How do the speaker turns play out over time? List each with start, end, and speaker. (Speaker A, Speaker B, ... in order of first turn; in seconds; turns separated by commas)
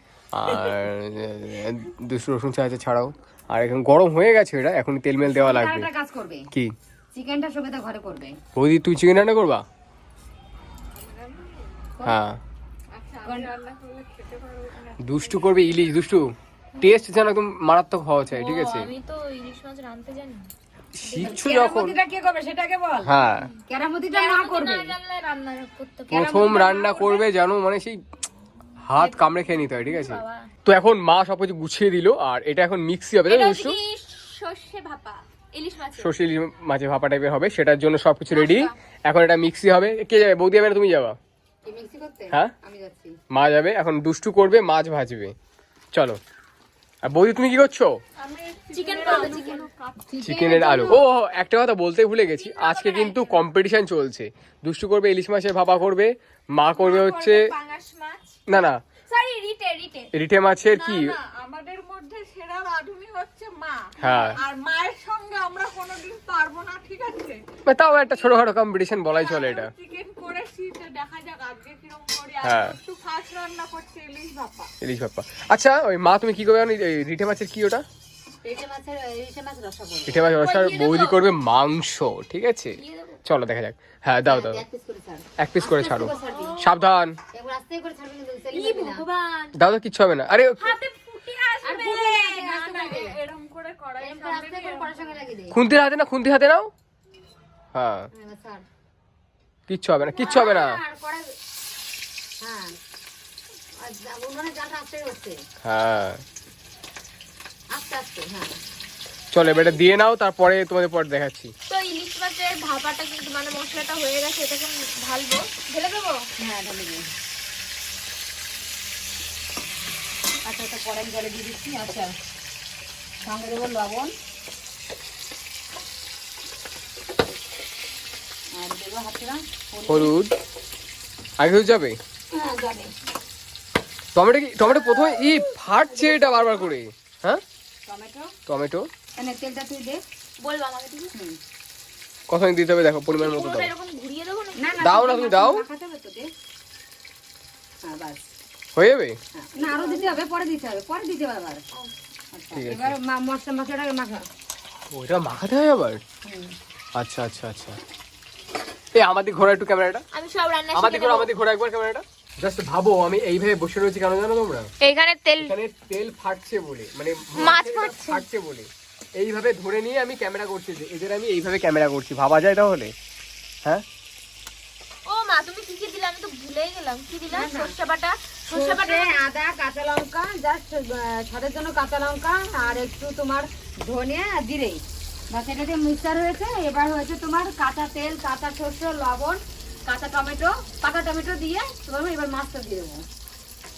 Speaker A: 0.3-5.9, Speaker B: 5.2-6.5, Speaker B: 7.1-8.4, Speaker A: 8.6-9.6, Speaker C: 10.9-11.6, Speaker A: 12.0-12.4, Speaker C: 12.9-15.7, Speaker B: 13.2-13.5, Speaker A: 15.0-18.9, Speaker D: 18.3-20.5, Speaker A: 21.0-22.0, Speaker D: 21.1-21.4, Speaker B: 21.1-24.9, Speaker A: 23.0-23.5, Speaker D: 24.1-27.2, Speaker A: 26.1-28.0, Speaker B: 26.2-27.0, Speaker A: 28.9-33.8, Speaker D: 29.0-30.5, Speaker D: 33.2-36.1, Speaker A: 36.0-41.2, Speaker D: 38.3-38.7, Speaker B: 41.6-43.1, Speaker A: 43.3-45.3, Speaker A: 45.9-46.2, Speaker A: 47.0-48.0, Speaker C: 48.2-50.0, Speaker D: 48.7-49.7, Speaker B: 50.1-51.0, Speaker A: 50.2-57.5, Speaker D: 50.7-51.0, Speaker D: 52.3-53.4, Speaker D: 56.7-58.4, Speaker A: 58.5-58.8, Speaker D: 59.0-60.1, Speaker A: 60.1-61.1, Speaker C: 60.7-67.4, Speaker A: 64.0-64.4, Speaker A: 67.7-69.7, Speaker C: 69.1-74.7, Speaker A: 72.4-72.8, Speaker A: 74.8-77.8, Speaker B: 78.4-80.3, Speaker A: 80.0-84.6, Speaker D: 80.3-81.3, Speaker D: 82.7-83.2, Speaker B: 84.2-86.6, Speaker A: 85.4-87.2, Speaker D: 86.0-86.7, Speaker B: 87.3-89.0, Speaker D: 88.5-89.6, Speaker A: 89.5-90.8, Speaker D: 90.5-93.0, Speaker B: 91.6-93.2, Speaker C: 92.7-95.1, Speaker B: 94.0-95.6, Speaker A: 95.5-96.7, Speaker A: 97.7-98.1, Speaker B: 98.1-98.6, Speaker A: 99.7-100.8, Speaker B: 100.1-101.3, Speaker B: 102.4-102.7, Speaker B: 103.8-105.4, Speaker A: 105.6-106.2, Speaker B: 107.7-108.5, Speaker A: 109.3-111.5, Speaker D: 109.4-109.8, Speaker D: 111.7-116.2, Speaker B: 116.4-117.0, Speaker B: 120.4-122.1, Speaker B: 123.2-124.1, Speaker B: 128.5-130.1, Speaker A: 129.9-130.3, Speaker A: 131.4-132.0, Speaker B: 132.3-132.9, Speaker A: 134.1-137.4, Speaker D: 136.0-136.6, Speaker B: 137.8-138.3, Speaker A: 138.5-138.9, Speaker B: 139.2-140.0, Speaker D: 140.4-141.1, Speaker A: 142.3-143.7, Speaker D: 143.2-145.0, Speaker B: 144.6-146.3, Speaker A: 144.8-145.7, Speaker B: 147.8-148.3, Speaker A: 148.7-149.2, Speaker B: 149.3-151.6, Speaker D: 149.6-150.2, Speaker B: 152.3-154.2, Speaker A: 152.5-152.9, Speaker A: 154.9-156.0, Speaker B: 156.2-156.5, Speaker A: 156.9-157.8, Speaker A: 158.9-160.0, Speaker D: 160.1-161.3, Speaker A: 160.7-164.7, Speaker D: 164.8-165.5, Speaker A: 165.4-172.9, Speaker D: 167.3-168.2, Speaker D: 175.1-179.2, Speaker B: 177.3-177.7, Speaker B: 178.5-193.0